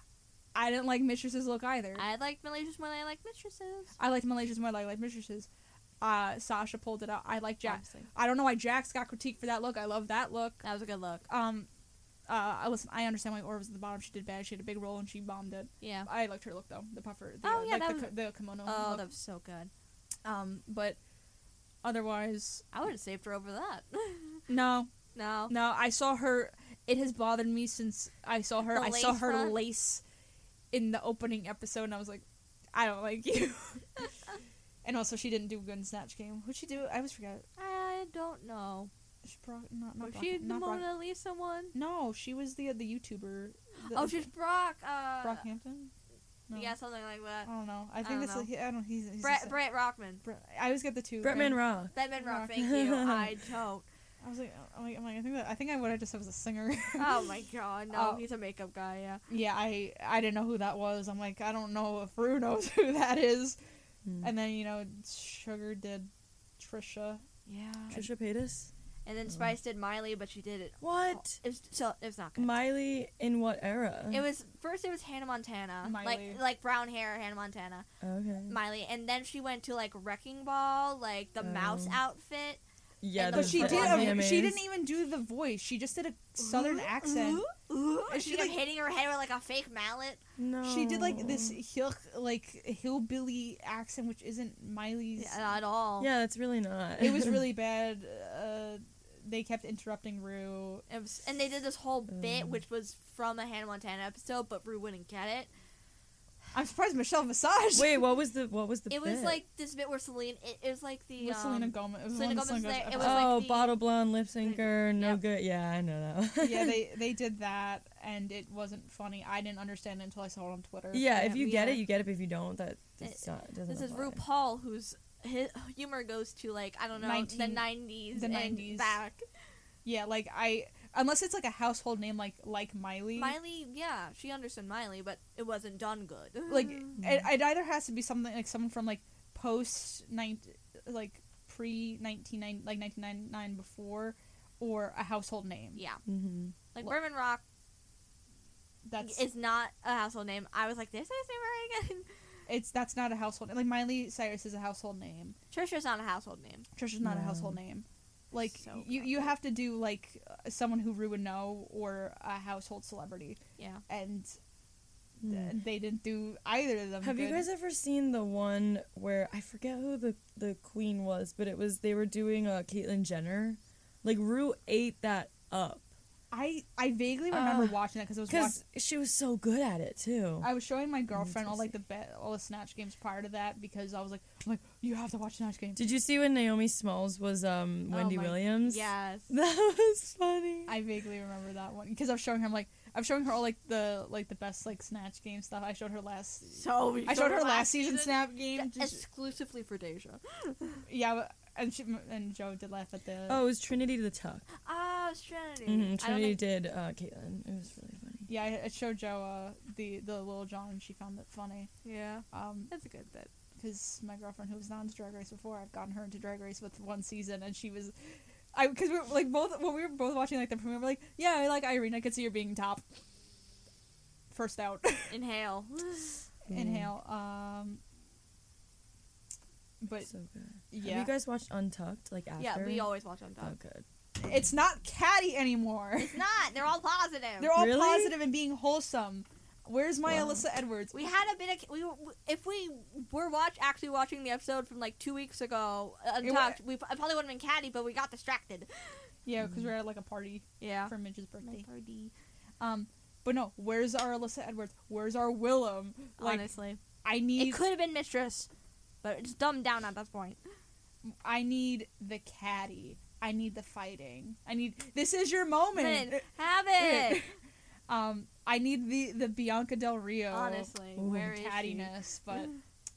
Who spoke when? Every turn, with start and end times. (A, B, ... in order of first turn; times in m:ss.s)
0:00.6-0:02.0 A
0:02.0-0:04.0 B
0:04.0-0:05.5 A
0:06.0-0:10.6 A
0:07.6-0:08.1 B
0:10.6-0:11.3 B
0:11.3-0:11.7 A
0:12.3-0:19.1 A
0:15.8-0:16.1 B
0:17.4-0:19.7 B
0:20.2-0:21.0 A
0:21.8-0:22.6 A
0:22.7-0:24.5 B
0:24.5-0:24.9 A
0:25.1-0:25.5 B
0:25.5-0:30.0 A
0:28.7-0:29.6 B
0:30.7-0:34.0 A
0:34.8-0:37.5 A
0:37.6-0:38.9 B
0:39.2-0:40.9 A
0:40.0-0:41.8 B
0:41.7-0:44.3 A
0:43.8-0:45.4 B
0:45.2-0:45.9 A
0:46.5-0:46.8 A
0:46.5-0:47.5 B
0:47.4-0:49.6 A
0:48.0-0:48.5 B
0:49.2-0:50.2 B
0:50.2-0:51.6 A
0:51.2-0:52.0 C
0:51.9-0:53.9 B
0:52.2-0:52.6 A
0:52.5-0:53.4 C
0:54.2-0:57.3 A
0:57.0-0:59.2 B
0:57.9-0:58.2 A
0:59.3-1:03.6 A
1:04.2-1:07.2 A
1:07.5-1:08.0 B
1:07.9-1:08.7 C
1:09.1-1:12.5 B
1:10.8-1:11.4 C
1:12.4-1:14.3 C
1:14.1-1:17.9 B
1:15.8-1:16.4 A
1:18.0-1:18.6 C
1:18.5-1:22.6 B
1:21.4-1:22.0 C
1:23.0-1:24.6 C
1:23.2-1:24.2 B
1:23.3-1:27.5 A
1:26.4-1:30.2 B
1:28.1-1:28.6 A
1:30.4-1:31.6 C
1:30.6-1:35.4 A
1:35.2-1:36.1 B
1:36.0-1:37.4 C
1:37.0-1:40.8 A
1:40.9-1:45.5 B
1:42.1-1:42.6 C
1:46.5-1:48.0 A
1:47.7-1:49.4 C
1:48.9-1:53.8 B
1:51.2-1:53.3 A
1:53.0-1:56.8 C
1:54.4-1:55.2 B
1:56.4-2:01.4 A
2:00.9-2:04.2 C
2:01.2-2:01.8 B
2:03.0-2:09.2 B
2:07.0-2:09.0 A
2:09.8-2:13.4 A
2:13.2-2:16.9 B
2:16.5-2:25.8 A
2:17.0-2:17.3 C
2:25.8-2:26.0 B
2:26.1-2:26.5 C
2:26.7-2:27.4 B
2:28.8-2:29.3 A
2:29.0-2:32.1 B
2:32.5-2:35.4 A
2:35.5-2:36.7 B
2:36.8-2:44.4 A
2:37.0-2:37.6 C
2:38.5-2:39.3 B
2:43.6-2:43.8 B
2:45.2-2:45.6 C
2:45.2-2:47.5 A
2:47.0-2:55.8 C
2:56.3-2:58.6 A
2:57.3-3:00.5 C
3:00.4-3:05.9 A
3:01.1-3:01.7 C
3:05.8-3:10.8 C
3:07.9-3:08.4 A
3:08.4-3:09.3 B
3:10.7-3:19.0 A
3:16.5-3:20.8 B
3:20.9-3:23.4 A
3:23.3-3:24.5 C
3:24.6-3:26.4 B
3:25.7-3:28.3 C
3:28.3-3:31.7 A
3:31.8-3:33.3 B
3:32.3-3:32.7 A
3:33.6-3:42.8 A
3:44.3-3:45.2 A
3:45.1-3:46.3 B
3:46.5-3:46.9 C
3:46.5-3:47.8 A
3:49.8-3:50.1 A
3:50.1-3:53.8 C
3:50.7-3:51.1 A
3:52.4-3:53.6 B
3:54.2-3:56.2 A
3:56.0-3:57.5 B
3:57.4-4:00.9 A
3:57.5-3:58.2 C
4:00.1-4:00.4 C
4:00.9-4:09.0 B
4:06.2-4:06.6 A
4:09.2-4:11.7 A
4:09.4-4:09.7 C
4:10.6-4:12.1 B
4:12.6-4:16.5 A
4:16.2-4:16.8 B
4:17.0-4:17.6 A
4:17.4-4:18.5 B
4:19.0-4:20.4 B
4:21.0-4:27.4 A
4:25.7-4:27.2 B
4:27.9-4:32.5 A
4:30.3-4:32.5 B
4:31.0-4:31.4 C